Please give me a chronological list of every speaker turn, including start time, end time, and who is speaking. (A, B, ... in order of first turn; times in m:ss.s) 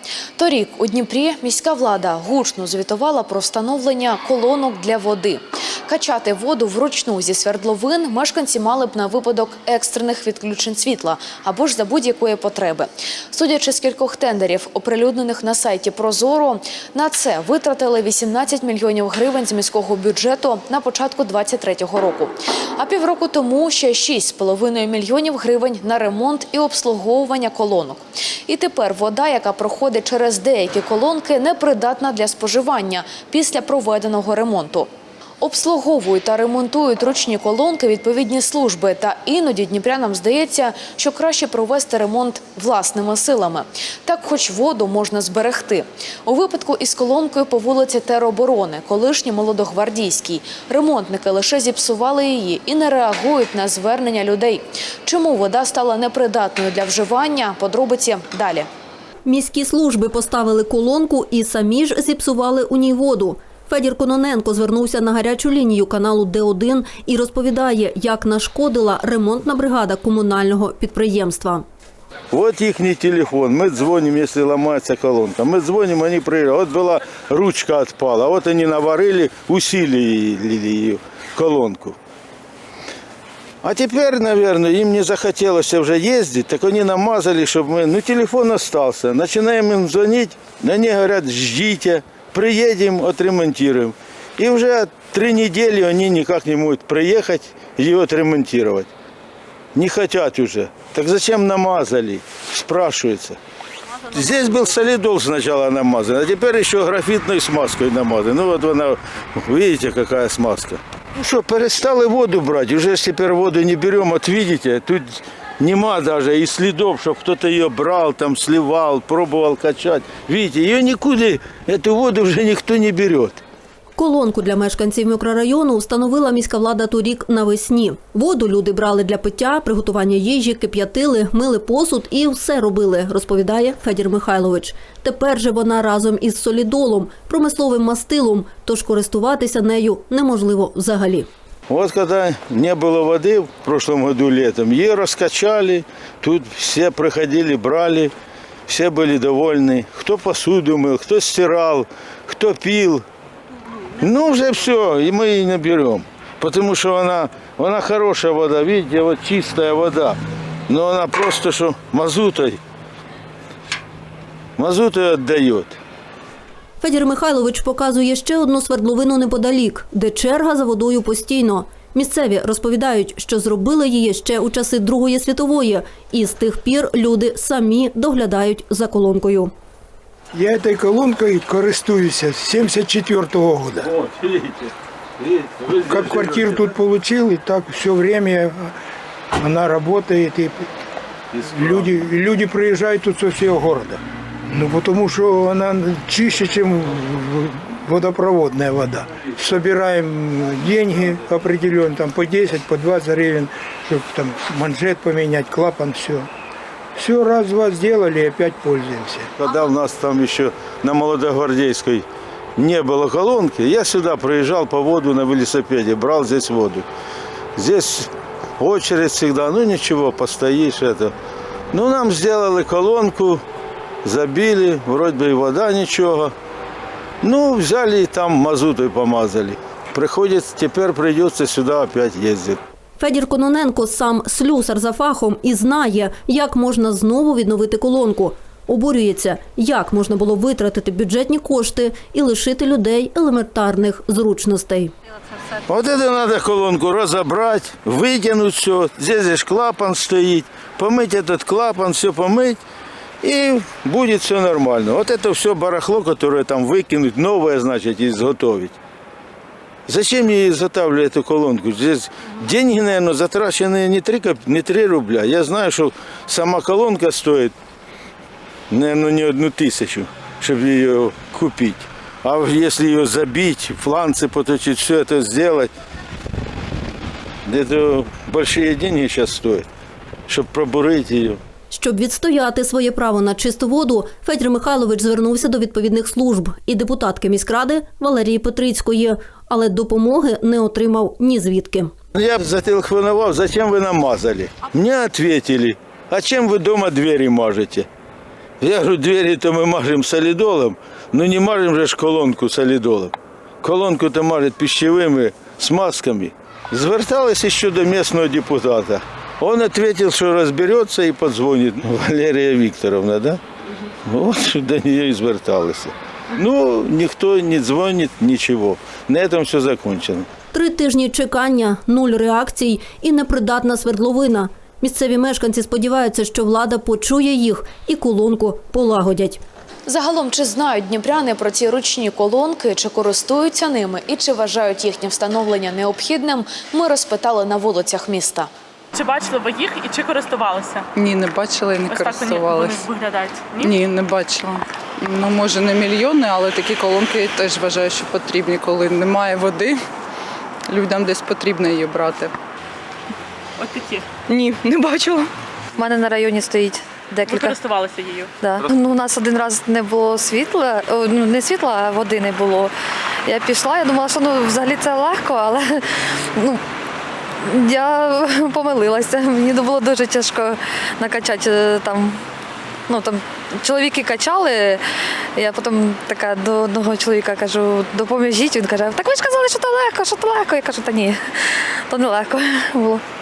0:00.4-0:34.9 A
0:35.4-0:58.7 A
0:59.3-1:11.7 B
1:12.3-1:22.0 C
1:23.6-1:38.9 C
1:39.8-1:43.4 C
1:44.1-2:03.4 C
2:04.0-2:21.3 B
2:21.7-2:28.1 C
2:28.7-2:33.0 C
2:34.0-2:40.2 C
2:40.7-2:42.6 C
2:44.6-2:45.8 C
2:46.8-2:59.5 B
3:00.4-3:03.9 D
3:03.8-3:06.8 C
3:05.8-3:08.7 D
3:09.4-3:10.7 D
3:11.4-3:11.9 C
3:11.4-3:26.3 D
3:27.0-3:29.3 D
3:29.4-3:32.0 C
3:32.6-3:36.9 C
3:37.6-3:41.2 C
3:41.7-3:43.4 C
3:44.0-3:46.3 C
3:47.2-3:52.6 C
3:53.0-4:04.9 B
4:05.7-4:12.6 C
4:13.2-4:18.8 C
4:19.9-4:27.5 C
4:28.7-4:35.7 C
4:37.5-4:39.7 C
4:40.3-4:41.4 C
4:41.7-4:51.9 B
4:52.2-4:57.9 C
4:58.6-5:13.4 C
5:14.1-5:20.3 C
5:20.5-5:29.4 B
5:29.9-5:38.5 A
5:38.9-5:40.9 E
5:41.0-5:42.8 F
5:41.8-5:43.8 E
5:43.6-5:49.8 F
5:50.7-5:52.3 F
5:53.6-5:54.1 E
5:54.3-5:55.3 F
5:55.8-5:57.6 G
5:57.3-5:58.3 E
5:58.4-6:02.7 G
6:03.3-6:05.8 G
6:07.4-6:12.2 G
6:12.9-6:14.8 G
6:15.4-6:21.2 G
6:21.9-6:23.0 G